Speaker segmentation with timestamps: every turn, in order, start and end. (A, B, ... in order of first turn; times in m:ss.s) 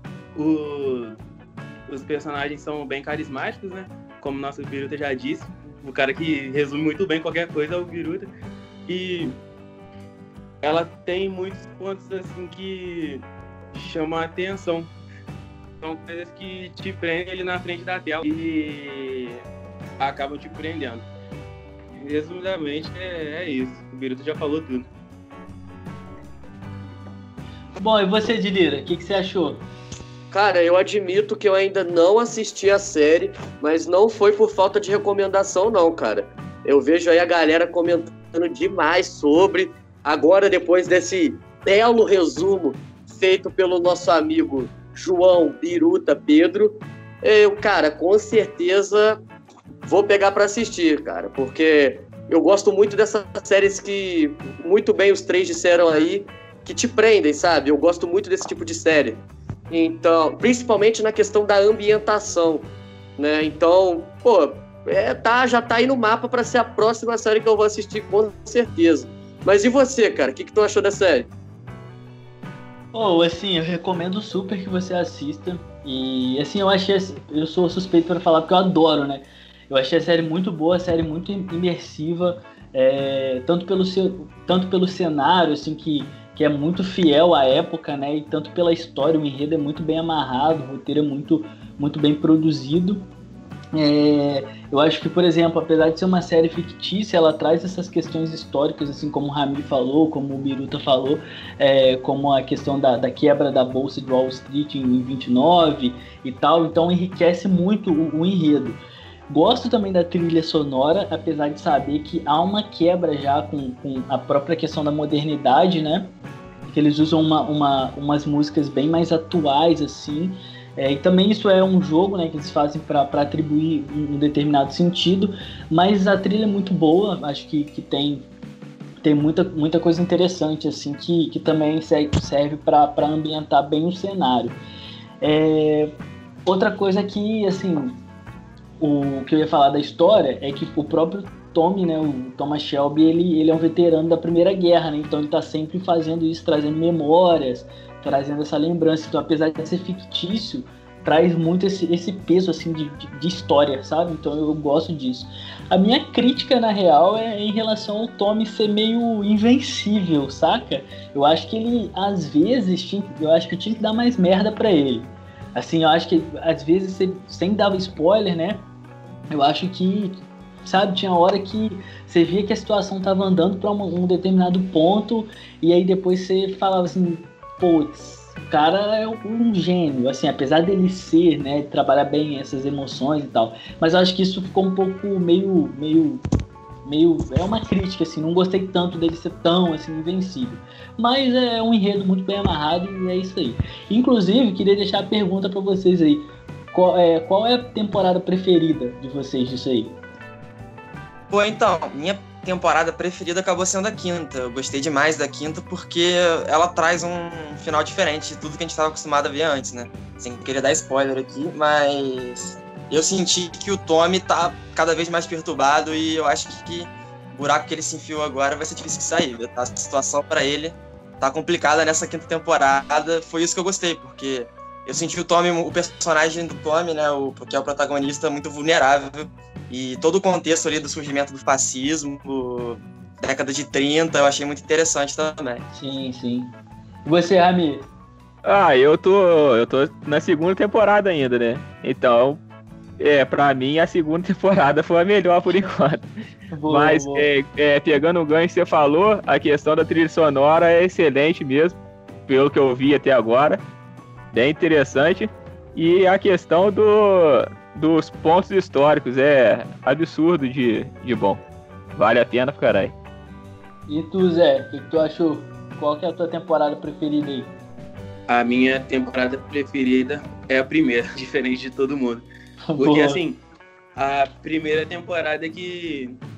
0:00.4-0:01.2 A
0:01.9-0:08.3 A
0:08.9-0:09.4 A
0:10.6-0:14.9 A
0:15.8-0:19.4 A
0:20.0-0:21.0 A
0:21.9-0:24.9 A
0:27.8-0:29.6 B
0:30.3-0:49.2 C
0:49.8-1:11.3 C
1:12.9-1:33.1 B
1:33.7-1:56.1 B
1:56.7-2:08.3 B
2:09.0-2:14.6 B
2:15.2-2:18.0 B
2:18.8-2:48.6 B
2:49.3-3:06.2 B
3:06.8-3:20.0 B
3:21.3-3:55.6 D
3:55.7-3:56.5 B
3:57.0-3:57.9 B
3:58.4-4:02.4 E
4:03.0-4:06.1 E
4:06.5-4:07.3 B
4:06.7-4:13.6 E
4:14.3-4:21.4 E
4:22.0-4:22.9 E
4:23.9-4:27.5 B
4:28.3-4:32.2 A
4:32.7-4:33.2 B
4:32.8-4:33.4 A
4:34.0-4:36.2 A